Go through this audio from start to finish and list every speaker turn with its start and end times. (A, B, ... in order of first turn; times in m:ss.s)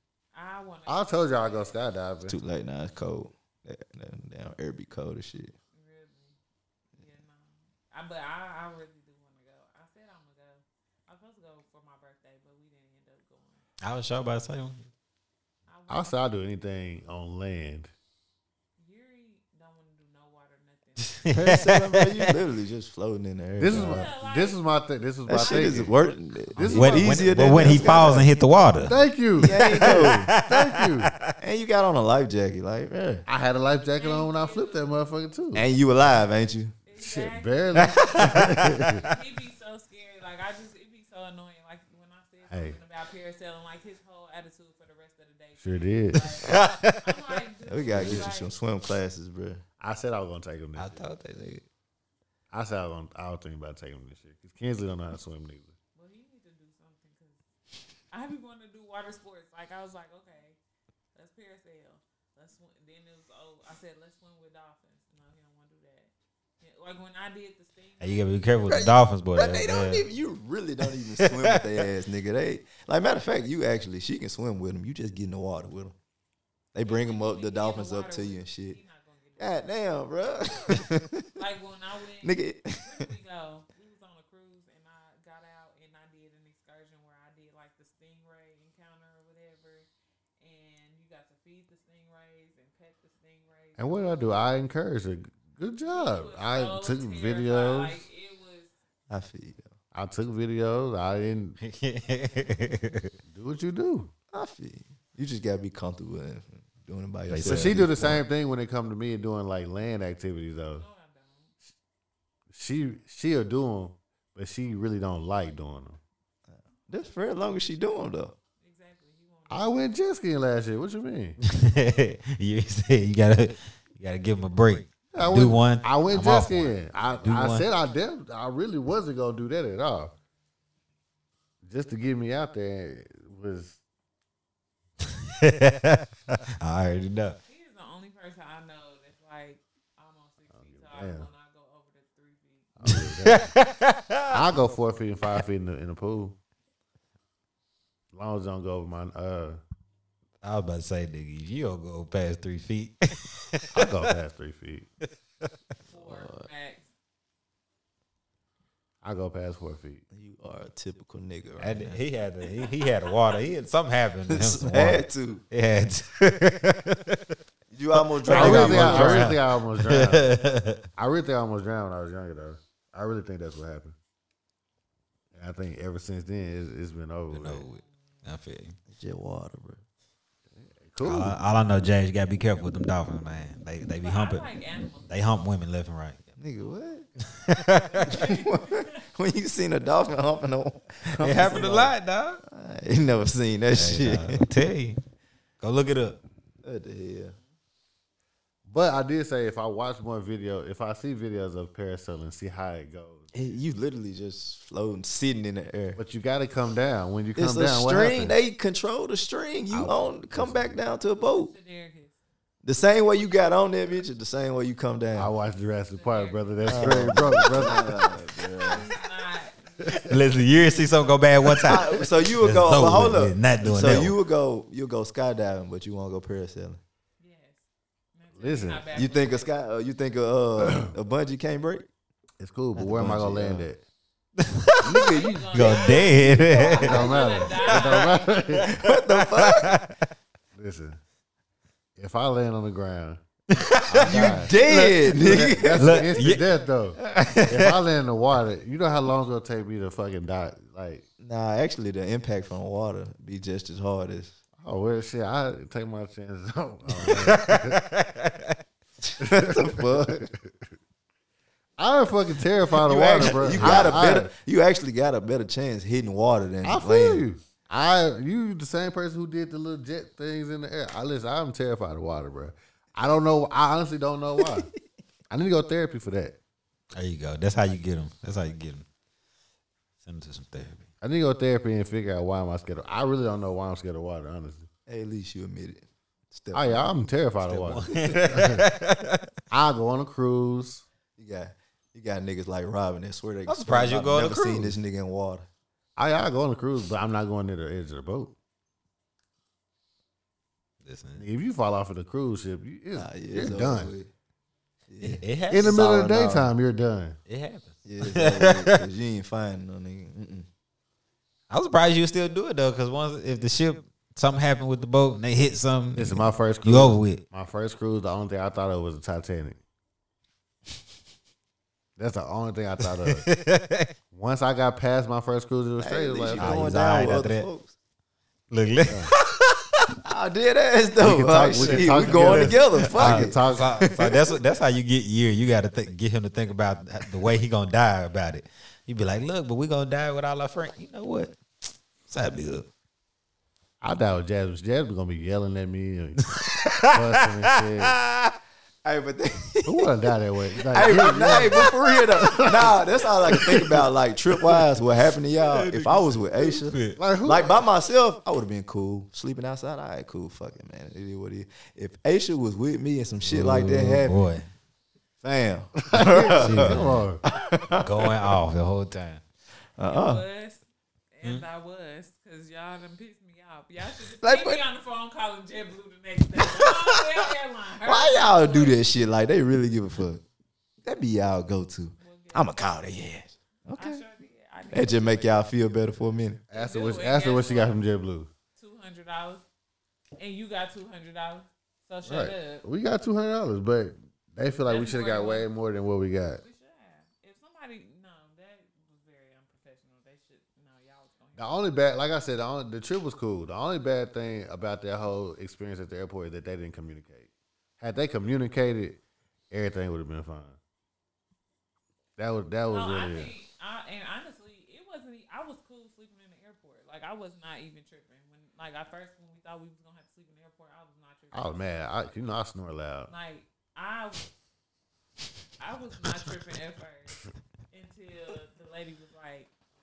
0:00.3-0:01.8 A
0:00.8-0:02.3 B
0:02.2-0:05.5 C
0:05.7-0:06.4 A
0:07.0-0:13.7 A
0:13.8-0:14.9 D
0:15.7-0:16.1 A
0:15.9-0:17.9 B
0:18.8-0:21.3 A
0:21.1-0:22.2 D
0:21.3-0:24.1 C
0:23.6-0:25.9 B
0:23.7-0:24.7 A
0:25.3-0:28.3 C
0:25.4-0:25.8 A
0:26.5-0:27.9 B
0:26.7-0:29.0 D
0:28.8-0:31.1 B
0:29.4-0:30.4 C
0:29.6-0:31.3 D
0:31.4-0:33.2 C
0:33.3-0:35.6 B
0:33.9-0:35.6 A
0:35.5-0:36.7 C
0:36.8-0:48.5 A
0:37.0-0:39.0 B
0:38.0-0:39.0 D
0:42.5-0:42.8 B
0:45.6-0:46.4 B
0:46.4-0:47.4 D
0:47.6-0:49.6 C
0:49.8-0:51.0 B
0:50.8-0:51.6 D
0:52.5-0:55.7 B
0:55.9-0:57.4 A
0:58.1-1:00.6 A
1:01.1-1:08.7 A
1:08.0-1:10.1 D
1:08.7-1:16.0 C
1:16.7-1:18.8 C
1:16.8-1:19.9 A
1:19.4-1:21.2 C
1:21.4-1:29.9 A
1:22.2-1:23.1 C
1:30.4-1:34.2 A
1:33.8-1:38.0 B
1:35.8-1:38.7 A
1:39.1-1:39.7 C
1:39.9-1:41.6 B
1:41.6-1:43.1 D
1:43.3-1:44.1 B
1:44.3-1:48.2 C
1:47.3-1:47.8 D
1:47.4-1:50.8 B
1:50.7-1:51.5 A
1:52.5-1:56.0 B
1:56.5-1:58.3 C
1:58.6-1:59.8 A
1:59.5-2:01.4 B
2:01.4-2:06.7 D
2:05.1-2:10.1 B
2:07.2-2:07.6 D
2:11.6-2:13.8 B
2:15.4-2:17.4 D
2:17.4-2:22.8 A
2:20.5-2:21.3 B
2:22.8-2:23.5 B
2:22.9-2:24.4 D
2:24.3-2:26.4 B
2:28.1-2:29.6 B
2:30.4-2:34.1 D
2:33.7-2:34.9 B
2:35.8-2:36.9 A
2:35.9-2:36.5 C
2:39.0-2:40.0 B
2:40.1-2:42.0 C
2:41.6-2:47.2 D
2:44.3-2:45.4 C
2:47.7-2:49.3 C
2:47.9-2:50.8 D
2:48.3-2:50.3 B
2:51.0-2:54.0 B
2:55.3-2:57.6 B
2:57.3-2:58.8 D
2:57.6-2:58.3 A
2:58.9-2:59.8 C
3:00.5-3:01.4 B
3:01.0-3:04.5 D
3:04.0-3:05.2 A
3:05.1-3:06.4 D
3:06.4-3:07.1 C
3:06.6-3:07.0 A
3:07.3-3:08.1 D
3:07.8-3:09.0 A
3:08.0-3:14.4 C
3:11.2-3:12.4 D
3:13.7-3:15.0 D
3:15.6-3:16.2 D
3:16.6-3:17.4 C
3:18.6-3:23.3 B
3:23.3-3:26.0 C
3:26.0-3:28.4 B
3:27.4-3:31.5 C
3:29.7-3:30.8 B
3:31.1-3:32.2 A
3:32.6-3:35.3 C
3:35.2-3:38.1 B
3:35.9-3:37.6 A
3:36.6-3:38.9 C
3:36.8-3:37.6 D
3:38.6-3:41.6 A
3:39.9-3:44.2 D
3:41.6-3:46.8 C
3:47.2-3:49.5 A
3:48.3-3:48.9 B
3:48.9-3:51.9 C
3:52.4-3:53.8 B
3:52.8-3:53.6 C
3:52.9-3:53.2 D
3:54.4-3:55.0 D
3:54.8-3:55.8 B
3:55.0-3:58.4 A
3:55.5-3:59.9 D
3:56.6-3:58.7 B
3:58.6-3:59.8 C
4:00.5-4:01.0 B
4:02.0-4:03.2 B
4:03.5-4:04.5 D
4:03.9-4:11.0 B
4:04.0-4:06.0 C
4:05.7-4:06.4 D
4:07.0-4:07.8 D
4:11.2-4:14.4 C
4:14.6-4:17.8 B
4:16.9-4:18.6 D
4:19.2-4:20.3 C
4:19.2-4:20.5 B
4:21.8-4:24.3 B
4:22.8-4:27.2 C
4:23.5-4:24.0 D
4:26.6-4:34.7 B
4:35.3-4:36.4 B
4:36.9-4:38.8 D
4:40.0-4:40.9 D
4:41.0-4:44.7 B
4:44.9-4:46.8 C
4:46.5-4:48.6 B
4:47.4-4:49.2 D
4:49.5-4:50.8 B
4:51.2-4:55.5 C
4:53.5-4:54.8 D
4:56.0-4:58.4 B
5:00.8-5:01.2 D
5:01.1-5:03.9 B
5:02.9-5:04.1 C
5:04.9-5:06.5 C
5:05.0-5:05.8 D
5:05.5-5:07.2 B
5:07.3-5:08.7 D
5:07.8-5:10.5 C
5:11.5-5:17.2 D
5:15.9-5:19.6 B
5:22.0-5:23.2 B
5:23.0-5:23.9 D
5:24.1-5:26.7 B
5:25.8-5:27.8 C
5:26.4-5:27.5 D
5:28.5-5:29.9 D
5:28.9-5:29.1 B
5:30.0-5:34.2 C
5:31.0-5:33.8 B
5:31.6-5:41.4 D
5:42.0-5:42.7 D
5:43.8-5:46.3 B
5:46.3-5:48.3 D
5:46.9-5:48.0 B
5:48.8-5:49.9 C
5:49.6-5:51.7 B
5:50.7-6:04.2 C
5:51.0-5:51.6 D
5:52.3-5:52.7 B
5:55.3-5:57.0 D
5:56.9-5:57.7 B
6:03.2-6:04.5 D
6:05.2-6:07.9 C
6:05.9-6:07.2 B
6:06.3-6:07.1 D
6:07.3-6:07.9 A
6:07.8-6:09.2 D
6:09.8-6:10.2 C
6:09.8-6:18.8 A
6:14.2-6:14.6 C
6:16.4-6:17.2 C
6:17.8-6:20.2 C
6:20.8-6:24.0 C
6:22.0-6:22.8 A
6:23.7-6:25.4 A
6:24.7-6:26.4 C
6:26.5-6:28.3 B
6:26.5-6:27.8 A
6:28.6-6:29.4 A
6:30.2-6:32.6 A
6:32.0-6:36.4 B
6:34.7-6:35.5 A
6:36.4-6:41.5 A
6:41.4-6:49.0 B
6:49.5-6:50.6 B
6:52.2-6:53.3 B
6:52.7-7:01.9 A
7:01.3-7:03.1 B
7:03.1-7:04.3 A
7:05.6-7:09.5 A